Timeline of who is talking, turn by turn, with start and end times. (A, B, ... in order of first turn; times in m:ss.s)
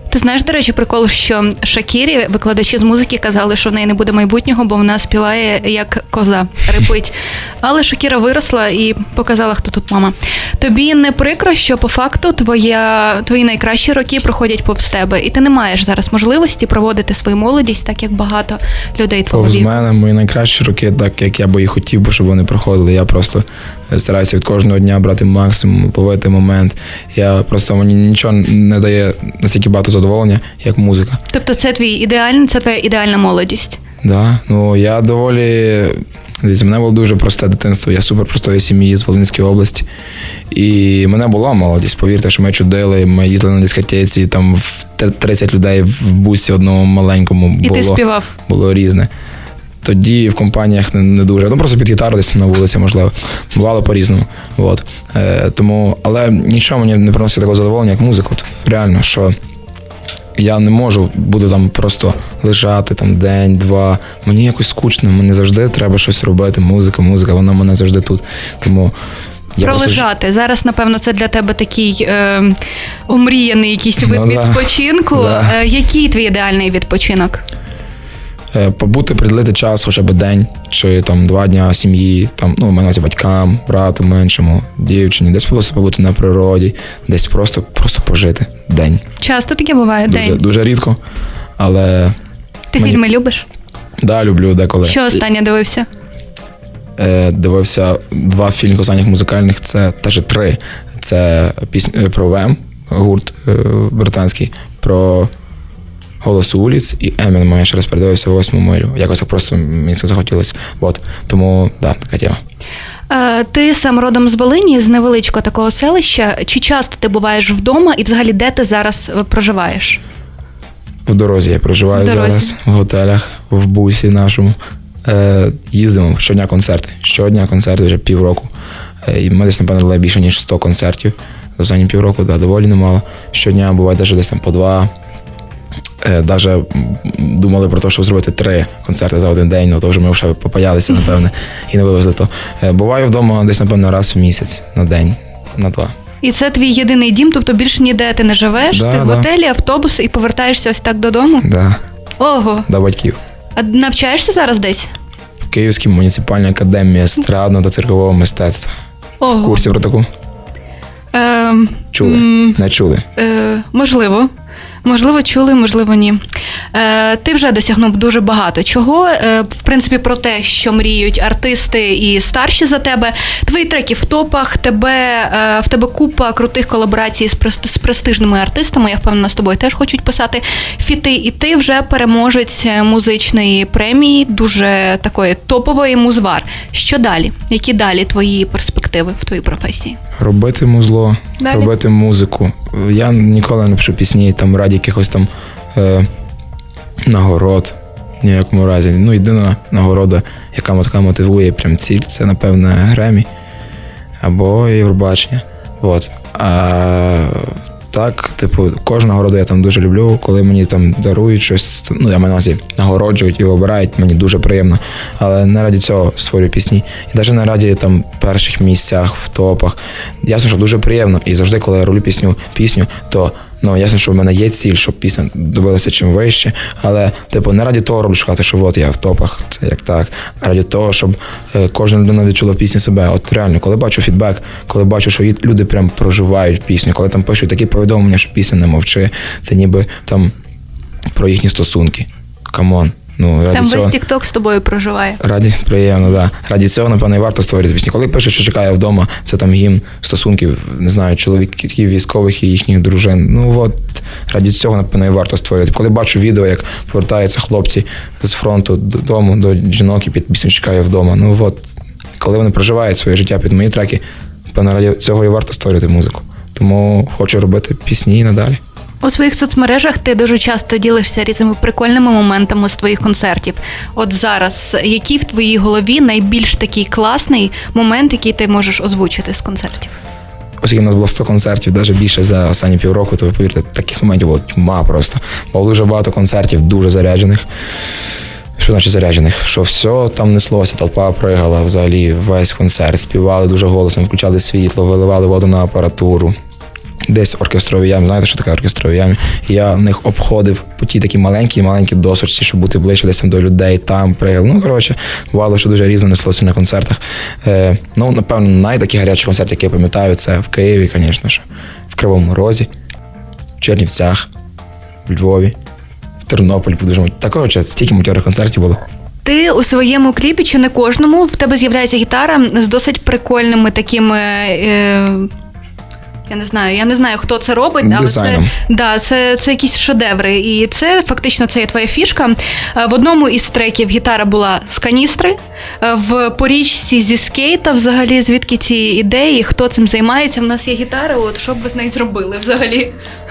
0:00.1-0:19.8 A
0:19.3-0:31.2 B
0:31.3-0:33.8 A
0:34.0-0:39.8 B
0:40.5-0:49.1 B
0:47.6-0:48.3 A
0:49.8-0:59.3 B
1:00.4-1:08.9 B
1:09.6-1:10.0 B
1:09.6-1:17.4 A
1:14.0-1:15.6 B
1:18.5-1:29.0 B
1:29.2-1:30.4 A
1:30.1-1:31.0 B
1:31.6-1:32.2 B
1:32.7-1:33.5 A
1:34.0-1:35.2 B
1:34.8-1:35.9 A
1:37.0-1:45.3 B
1:46.2-1:52.4 B
1:53.1-2:00.0 A
2:01.1-2:08.5 B
2:01.9-2:02.5 A
2:09.0-2:14.9 B
2:16.0-2:25.9 B
2:26.2-2:31.5 A
2:28.7-2:29.3 B
2:31.4-2:31.8 B
2:32.2-2:32.7 A
2:32.7-2:33.2 B
2:33.6-2:34.9 A
2:35.5-2:38.8 B
2:39.2-2:39.7 A
2:39.4-2:40.1 B
2:41.1-2:42.6 A
2:41.9-2:43.0 B
2:43.1-2:44.3 A
2:44.8-2:46.2 A
2:46.7-3:10.0 A
3:10.2-3:16.1 B
3:11.4-3:11.7 A
3:17.1-3:23.3 B
3:24.2-4:00.3 B
4:01.1-4:03.9 B
4:03.5-4:05.2 A
4:05.2-4:21.7 B
4:22.2-4:28.6 B
4:29.0-4:40.0 A
4:40.6-4:47.4 B
4:48.6-4:56.3 B
4:57.1-5:12.7 B
5:13.6-5:14.3 B
5:15.1-5:15.6 B
5:16.2-5:18.8 B
5:19.2-5:25.3 A
5:26.3-5:42.9 A
5:27.8-5:28.5 B